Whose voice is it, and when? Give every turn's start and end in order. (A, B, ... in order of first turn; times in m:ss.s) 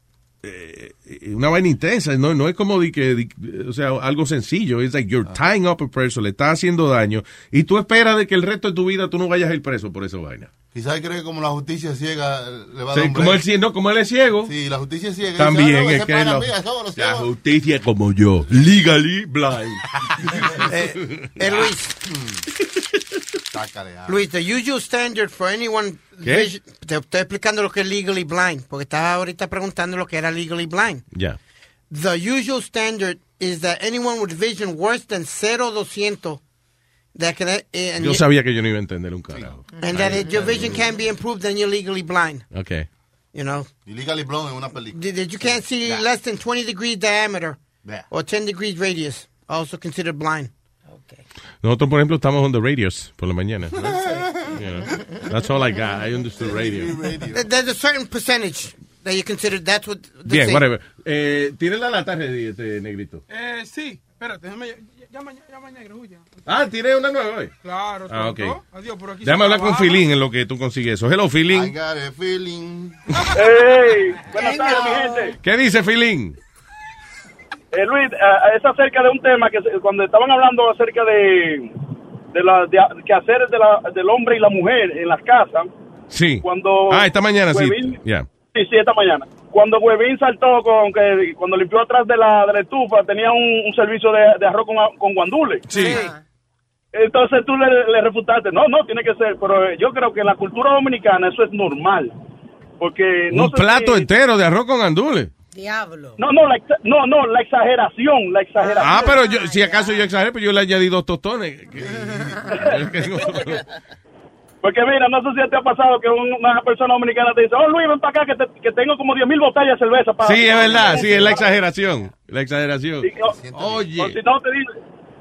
0:00.4-0:10.5 A
0:10.7-0:13.4 B
0:12.9-0:14.5 A
0:14.4-0:17.3 B
0:15.4-0:19.8 A
0:20.6-0:22.0 C
0:22.1-0:22.4 B
0:23.5-0:24.3 B
0:24.1-0:31.0 C
0:26.2-0:26.5 A
0:31.1-0:31.4 A
0:31.9-0:36.4 C
0:37.2-0:38.2 C
0:38.0-0:40.2 A
0:39.3-0:40.9 B
0:39.8-0:42.4 C
0:42.5-0:42.9 A
0:43.3-0:43.7 C
0:43.9-0:46.1 B
0:44.9-0:47.6 C
0:48.1-0:50.5 C
0:50.9-0:51.2 D
0:51.6-0:57.0 A
0:56.4-0:57.5 B
0:57.3-1:00.6 C
1:00.3-1:03.2 A
1:03.3-1:06.3 E
1:06.5-1:07.5 A
1:07.6-1:10.0 E
1:08.1-1:08.6 A
1:09.2-1:11.7 A
1:11.5-1:13.0 B
1:13.4-1:15.4 F
1:14.4-1:15.3 D
1:15.4-1:16.4 A
1:17.7-1:21.7 F
1:22.3-1:25.7 F
1:26.1-1:28.3 A
1:26.4-1:28.0 F
1:28.6-1:36.0 F
1:35.7-1:36.2 D
1:36.9-1:42.1 F
1:42.8-1:44.1 F
1:43.3-1:45.3 A
1:45.5-1:46.2 D
1:46.2-1:49.2 F
1:48.6-1:50.0 D
1:48.8-1:51.9 A
1:51.7-1:52.7 B
1:52.6-1:53.6 A
1:54.6-2:01.5 F
2:00.2-2:04.2 A
2:03.0-2:03.3 F
2:03.3-2:03.9 B
2:04.0-2:04.7 F